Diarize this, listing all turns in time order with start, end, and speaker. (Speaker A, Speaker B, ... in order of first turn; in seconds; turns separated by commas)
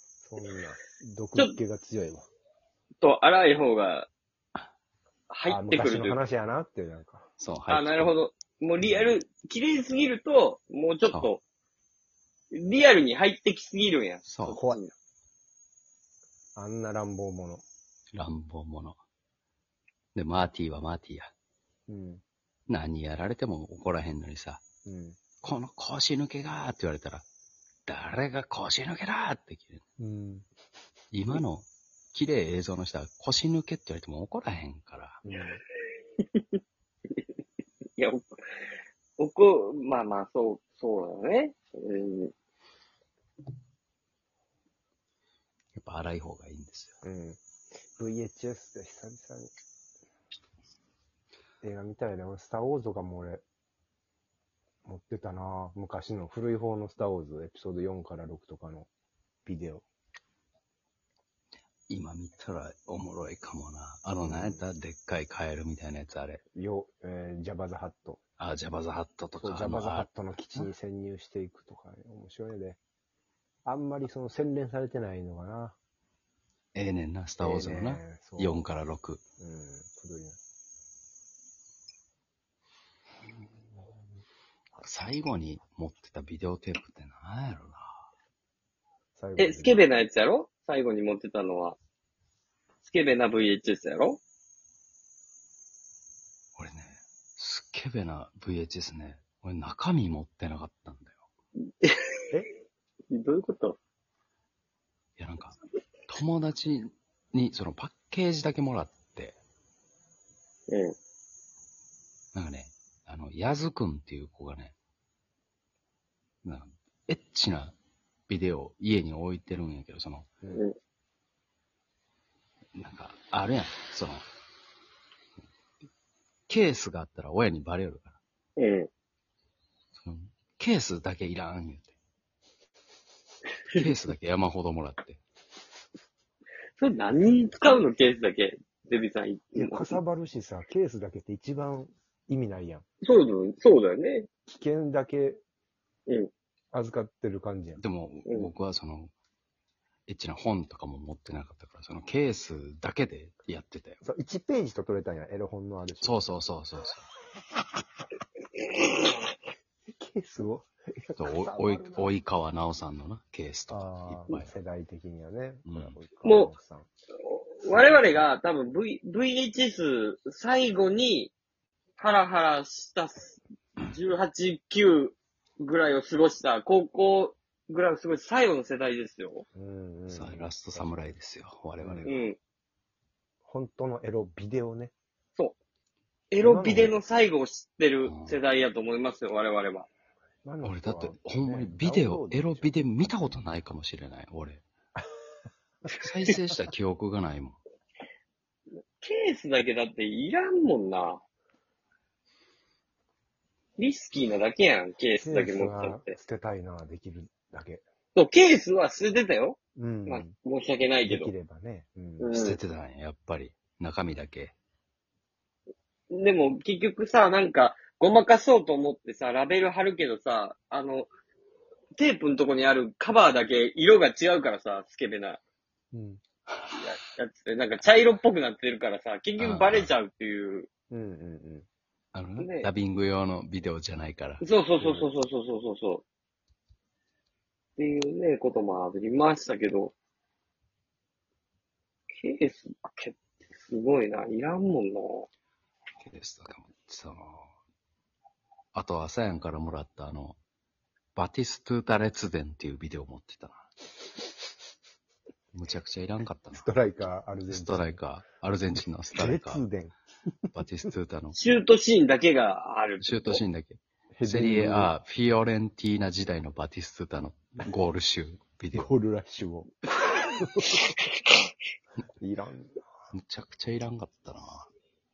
Speaker A: 0.2-2.3, Speaker B: 3.0-4.1, Speaker B: 5.3-6.2, Speaker A: 5.4-7.3, Speaker C: 7.4-8.1, Speaker B: 7.7-11.4, Speaker A: 8.8-9.1, Speaker B: 12.5-14.9, Speaker C: 14.2-14.6, Speaker A: 14.4-14.8, Speaker A: 16.6-17.6, Speaker C: 18.1-19.0, Speaker C: 20.1-21.3, Speaker A: 21.9-22.2, Speaker C: 22.7-24.6, Speaker A: 24.8-25.2, Speaker C: 25.4-27.2, Speaker C: 27.9-29.8, Speaker A: 30.0-30.5, Speaker C: 31.1-35.2, Speaker A: 35.2-35.6, Speaker B: 38.0-38.3, Speaker B: 39.2-42.3, Speaker C: 45.7-47.0, Speaker A: 47.0-47.4, Speaker A: 48.0-49.5, Speaker A: 51.6-53.4, Speaker A: 54.8-58.9, Speaker A: 59.4-59.9, Speaker C: 61.9-66.4, Speaker A: 64.2-64.6, Speaker A: 66.5-68.2, Speaker C: 68.4-70.7, Speaker A: 69.4-72.8, Speaker A: 73.6-75.8, Speaker C: 76.7-79.2, Speaker A: 77.4-78.6, Speaker A: 79.4-80.4, Speaker C: 84.8-88.0, Speaker A: 89.2-89.8, Speaker B: 89.4-91.8, Speaker B: 92.8-94.2, Speaker C: 96.6-101.2, Speaker B: 101.8-102.2, Speaker B: 103.1-103.8, Speaker C: 105.2-105.5, Speaker C: 106.1-109.4, Speaker B: 110.7-110.9, Speaker C: 112.3-114.7, Speaker C: 116.4-117.7, Speaker C: 118.3-120.3, Speaker C: 122.8-124.2, Speaker C: 126.5-128.2, Speaker B: 128.6-128.9, Speaker C: 129.9-131.9, Speaker C: 133.7-135.2, Speaker B: 136.8-140.0, Speaker A: 139.5-142.8, Speaker B: 143.0-144.3, Speaker A: 144.5-145.4, Speaker A: 146.7-147.8, Speaker C: 147.8-149.1, Speaker C: 150.1-154.0, Speaker A: 154.0-156.3, Speaker C: 156.0-157.1, Speaker A: 159.9-162.1, Speaker C: 161.2-164.5, Speaker A: 163.7-166.9, Speaker C: 165.7-166.0, Speaker B: 166.2-166.5, Speaker B: 167.3-171.3, Speaker A: 167.7-168.2, Speaker B: 172.0-179.4, Speaker A: 179.5-180.9, Speaker C: 180.1-182.3, Speaker A: 181.8-182.1, Speaker B: 182.0-182.4, Speaker A: 183.4-184.9, Speaker B: 186.3-189.9, Speaker A: 186.4-187.0, Speaker C: 188.0-188.4, Speaker A: 190.4-193.3, Speaker C: 190.6-194.6, Speaker C: 196.0-197.6, Speaker B: 199.0-201.2, Speaker B: 203.8-206.2, Speaker A: 205.2-207.8, Speaker B: 208.1-211.3, Speaker A: 209.8-210.3, Speaker A: 211.0-212.3, Speaker B: 212.2-212.6, Speaker C: 212.3-214.5, Speaker B: 216.1-221.1, Speaker B: 221.9-225.4, Speaker A: 225.9-226.2, Speaker C: 226.5-226.8, Speaker B: 226.7-230.7, Speaker C: 229.4-229.9, Speaker A: 230.9-231.7, Speaker C: 232.1-234.4, Speaker B: 232.4-232.7, Speaker B: 234.4-236.0, Speaker A: 234.8-235.1, Speaker B: 237.8-239.9, Speaker B: 242.2-245.3, Speaker C: 246.0-247.4, Speaker C: 248.7-250.4, Speaker C: 251.1-253.7, Speaker C: 255.5-256.7, Speaker A: 256.5-258.0, Speaker C: 257.5-259.6, Speaker A: 259.1-260.0, Speaker C: 260.5-261.4, Speaker B: 261.3-263.4, Speaker C: 263.0-268.9, Speaker A: 264.1-264.9, Speaker A: 268.7-270.8, Speaker A: 272.2-272.9, Speaker C: 273.1-274.7